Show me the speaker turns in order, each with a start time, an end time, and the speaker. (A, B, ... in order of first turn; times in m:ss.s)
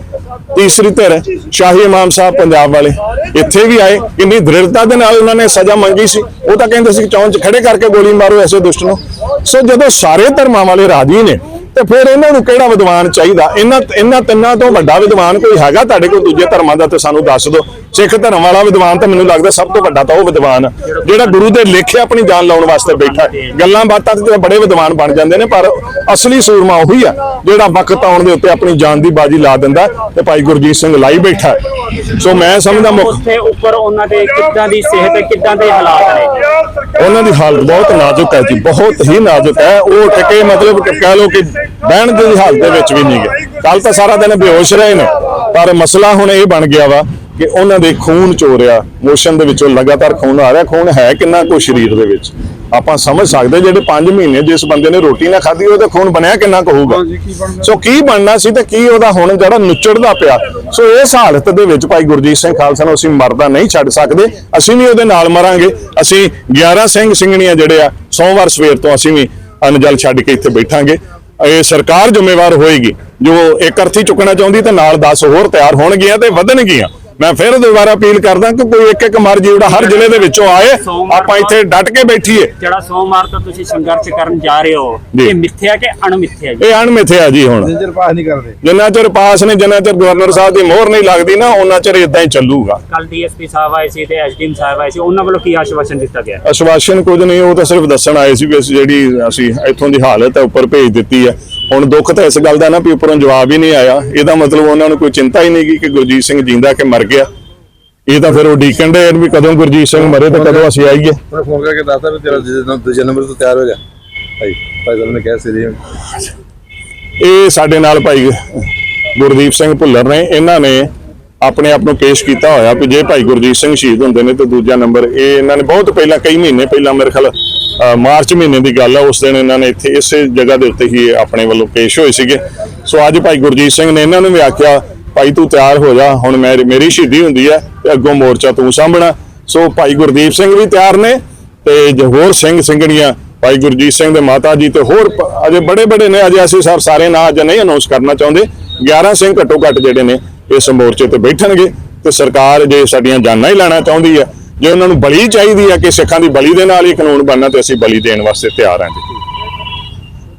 0:00.5-0:33.2 A
0:20.9-0:21.4 B
0:23.2-0:23.5 B
0:32.6-0:36.5 B
0:37.0-1:22.5 A
1:19.6-1:21.6 B
1:22.4-1:26.7 B
1:26.6-1:27.8 A
1:27.6-1:28.6 C
1:28.6-1:32.8 A
1:32.9-1:36.4 B
1:36.4-1:47.3 A
1:48.1-1:51.2 A
1:50.2-1:50.7 C
1:51.3-1:53.8 C
1:54.4-1:55.8 C
1:57.2-2:00.9 A
2:01.4-2:39.0 A